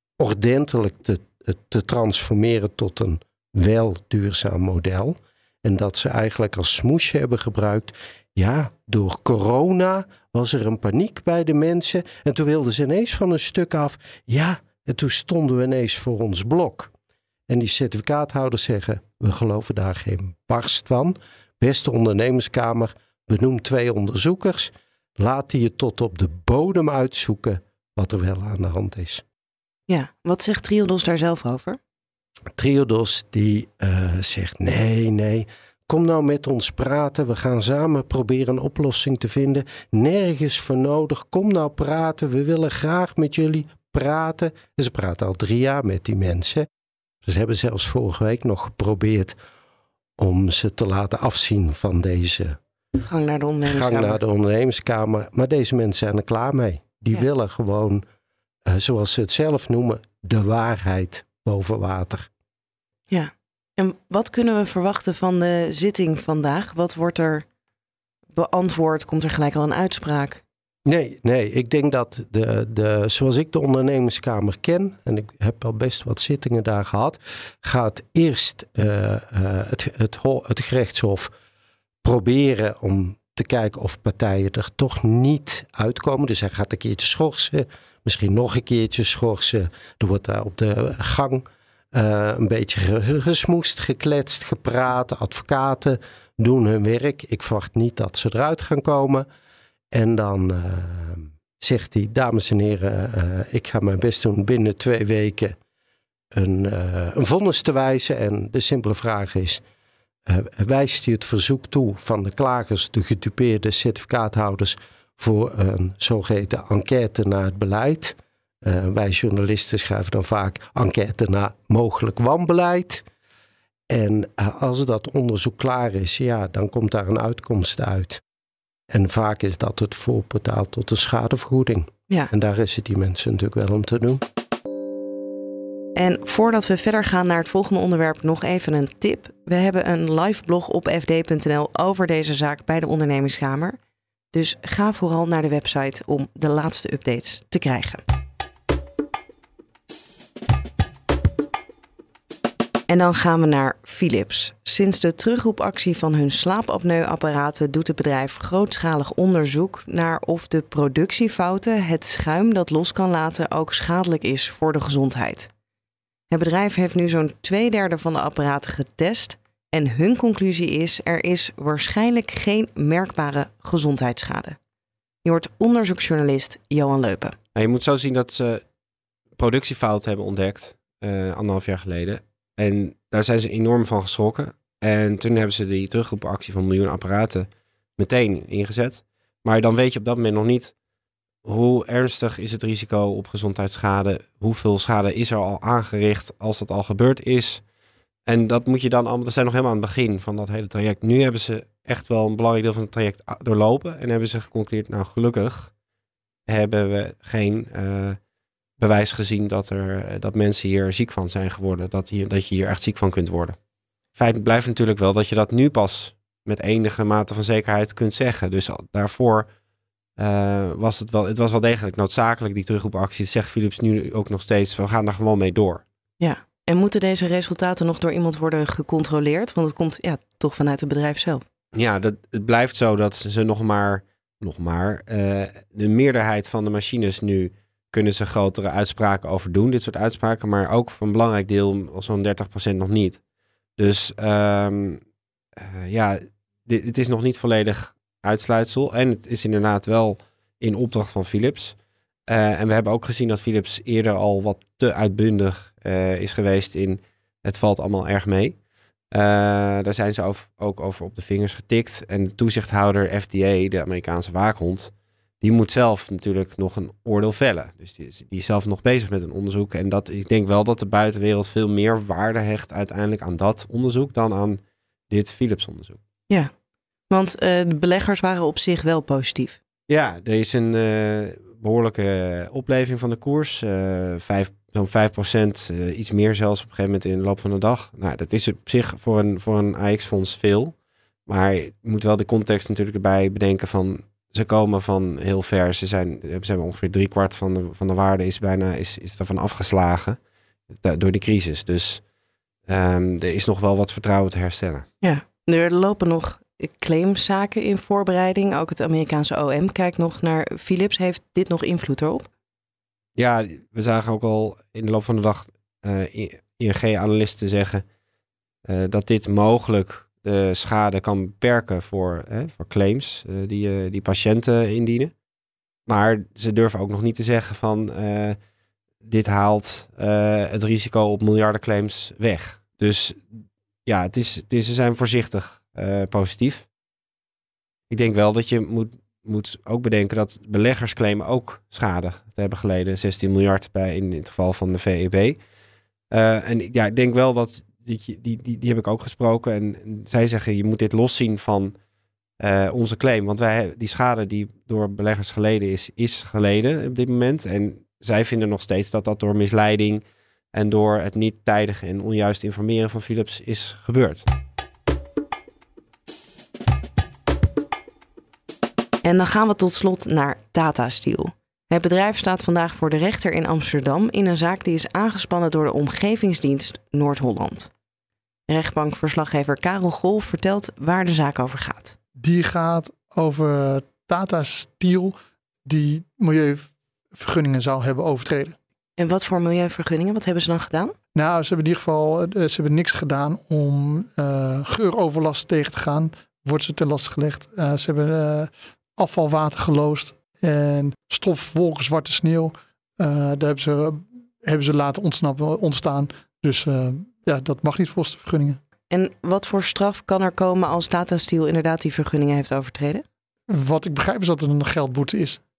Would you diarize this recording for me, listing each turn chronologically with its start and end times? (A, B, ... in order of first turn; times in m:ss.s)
0:00.2-0:16.9 A
0:17.5-0:29.2 A
0:29.9-0:31.8 B
0:32.6-0:46.7 A
0:47.2-0:49.4 A
0:50.2-0:52.6 A
0:53.0-0:54.2 B
0:53.6-0:58.0 A
0:58.6-1:02.3 A
1:03.1-1:07.4 B
1:08.3-1:10.4 B
1:10.8-1:21.3 A
1:22.0-1:39.2 A
1:39.9-1:45.6 A
1:46.3-1:49.6 A
1:50.2-2:03.0 A
2:03.9-2:08.2 A
2:08.9-2:14.2 A
2:16.0-2:23.8 B
2:24.3-2:28.0 B
2:32.9-2:45.5 B
2:46.3-2:54.6 B
2:55.2-2:57.4 B
2:57.5-2:58.6 C
2:59.4-3:10.7 C
3:11.4-3:17.6 C
3:18.2-3:25.7 C
3:26.5-3:28.2 C
3:28.8-3:33.6 C
3:34.1-3:39.5 C
3:40.2-3:45.8 C
3:46.2-3:51.4 B
3:51.7-4:03.2 C
4:03.8-4:05.0 C
4:05.6-4:11.8 C
4:12.3-4:18.6 C
4:19.1-4:36.0 C
4:37.1-4:39.6 B
4:39.9-4:50.8 C
4:51.3-5:00.2 C
5:00.7-5:02.0 C
5:02.7-5:04.8 C
5:05.0-5:12.3 B
5:13.2-5:17.8 C
5:18.6-5:25.1 C
5:25.9-5:28.4 C
5:29.0-5:33.2 C
5:33.8-5:36.7 C
5:37.9-5:45.4 C
5:46.1-5:51.7 C
5:52.4-6:04.3 C
6:09.0-6:17.7 B
6:18.5-6:22.0 B
6:22.2-6:28.6 D
6:29.0-6:30.9 B
6:31.1-6:48.6 D
6:48.9-6:53.0 B
6:53.5-6:55.4 D